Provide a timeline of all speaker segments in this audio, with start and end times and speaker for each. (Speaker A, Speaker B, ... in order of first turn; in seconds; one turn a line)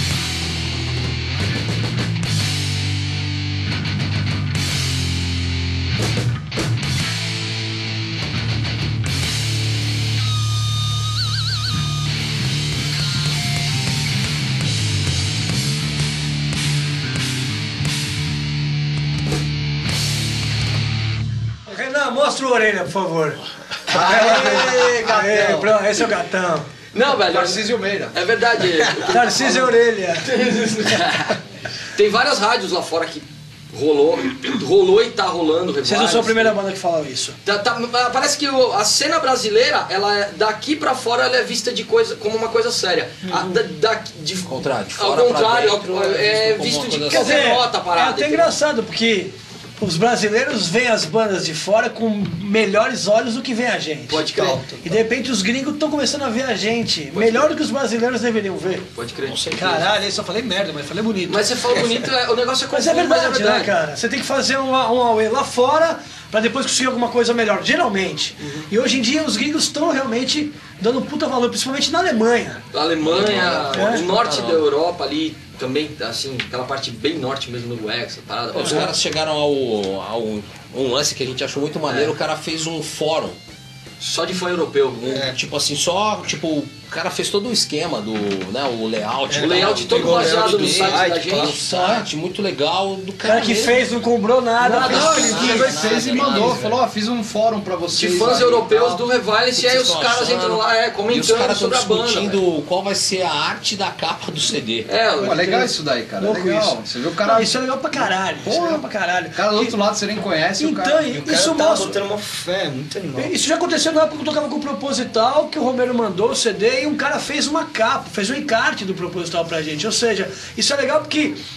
Speaker A: 21.7-26.7
Speaker B: 23.9-25.8
Speaker C: 26.9-31.4
Speaker B: 27.3-28.2
Speaker A: 29.1-30.9
Speaker C: 31.9-36.6
Speaker A: 35.9-37.4
Speaker C: 37.5-48.6
Speaker A: 43.3-43.6
Speaker D: 44.5-47.5
Speaker A: 47.1-54.2
Speaker C: 54.1-54.8
Speaker E: 54.3-55.0
Speaker A: 54.8-58.9
Speaker C: 57.1-57.5
Speaker C: 59.0-59.9
Speaker A: 59.5-61.5
Speaker C: 61.3-63.7
Speaker A: 62.7-72.6
Speaker C: 68.4-68.7
Speaker C: 72.7-79.0
Speaker D: 73.0-74.7
Speaker A: 73.7-74.0
Speaker D: 78.5-83.4
Speaker A: 78.6-78.9
Speaker C: 81.9-82.2
Speaker C: 84.0-85.2
Speaker D: 85.0-93.8
Speaker E: 85.1-85.4
Speaker E: 89.3-92.0
Speaker C: 89.4-91.6
Speaker A: 91.7-92.0
Speaker A: 93.2-95.6
Speaker C: 94.6-95.8
Speaker D: 94.7-96.6
Speaker B: 94.8-98.9
Speaker E: 95.8-96.8
Speaker C: 97.9-102.4
Speaker D: 99.5-104.9
Speaker C: 104.9-105.7
Speaker B: 105.2-111.0
Speaker A: 105.2-105.7
Speaker A: 106.2-109.8
Speaker A: 110.6-112.0
Speaker E: 111.1-113.3
Speaker A: 113.2-121.4